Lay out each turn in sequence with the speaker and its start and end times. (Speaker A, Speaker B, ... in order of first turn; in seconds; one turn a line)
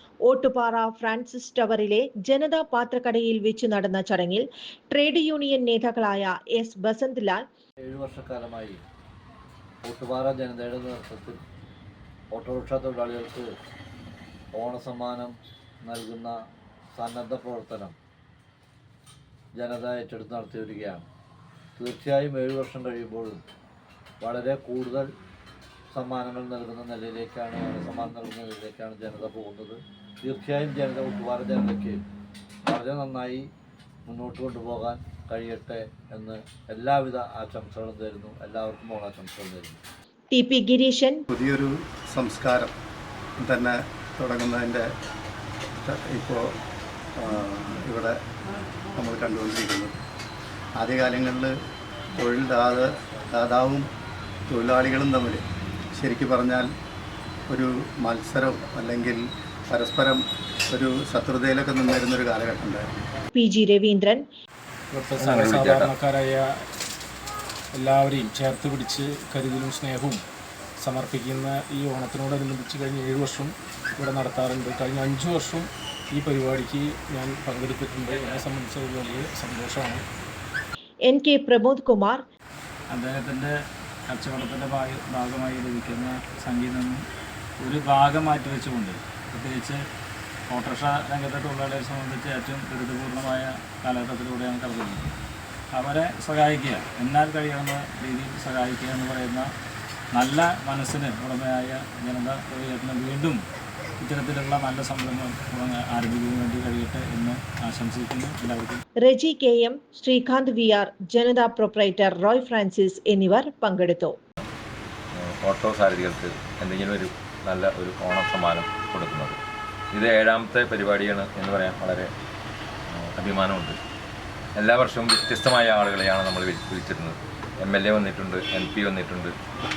Speaker A: 0.2-7.4
Speaker B: 7.8-8.8
Speaker B: 9.8-11.4
Speaker B: 12.3-13.5
Speaker B: 14.5-16.4
Speaker B: 16.9-17.9
Speaker B: 19.5-21.1
Speaker B: 21.8-23.4
Speaker B: 24.2-25.1
Speaker B: 25.9-32.0
Speaker B: 32.7-33.4
Speaker B: 34.0-39.8
Speaker A: 40.3-41.2
Speaker C: 41.3-42.7
Speaker C: 43.4-44.8
Speaker C: 45.9-46.4
Speaker C: 47.2-48.2
Speaker C: 49.0-50.0
Speaker C: 50.8-51.5
Speaker C: 52.2-53.8
Speaker C: 54.5-55.4
Speaker C: 56.0-56.7
Speaker C: 57.5-62.9
Speaker A: 63.3-64.2
Speaker D: 64.9-66.4
Speaker E: 65.2-65.9
Speaker D: 67.7-70.2
Speaker D: 70.8-80.0
Speaker A: 81.0-82.2
Speaker F: 82.9-83.5
Speaker F: 84.1-87.0
Speaker F: 87.6-89.8
Speaker F: 90.5-95.1
Speaker F: 95.8-99.5
Speaker F: 100.2-103.4
Speaker F: 104.0-108.8
Speaker A: 109.0-114.1
Speaker E: 115.2-119.4
Speaker E: 119.9-122.1
Speaker E: 122.9-123.8
Speaker E: 124.6-129.3